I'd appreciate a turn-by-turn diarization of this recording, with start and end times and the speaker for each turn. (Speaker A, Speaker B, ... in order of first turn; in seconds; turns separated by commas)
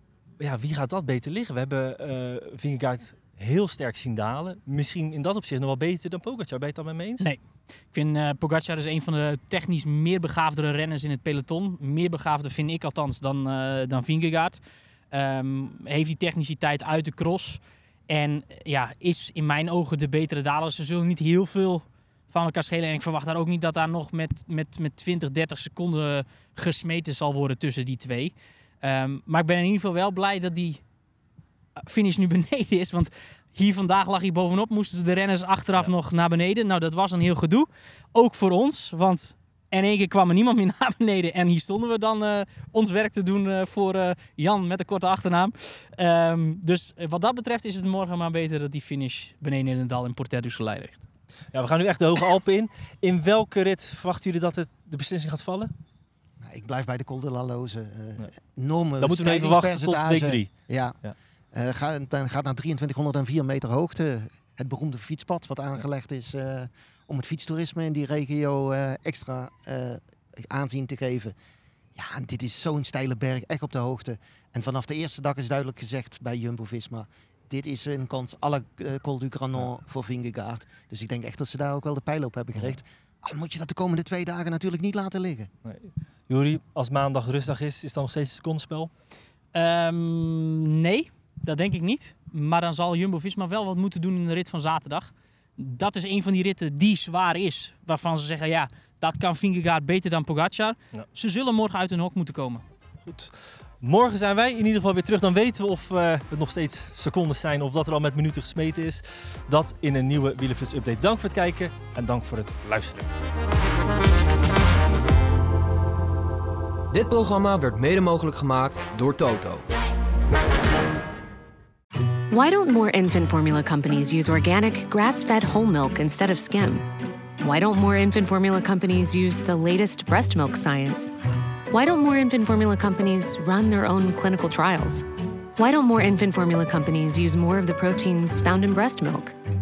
Speaker A: 0.4-7.3, Speaker B: 7.9-14.6, Speaker B: 15.1-30.8, Speaker B: 31.8-51.0, Speaker A: 51.5-55.7, Speaker C: 56.4-60.9, Speaker A: 59.0-61.1, Speaker C: 61.5-71.3, Speaker C: 72.0-85.5, Speaker A: 85.6-88.9, Speaker B: 89.5-102.6, Speaker A: 103.0-113.1, Speaker D: 116.9-119.6, Speaker E: 122.3-126.8, Speaker E: 127.4-131.1, Speaker E: 131.7-135.0, Speaker E: 135.6-139.3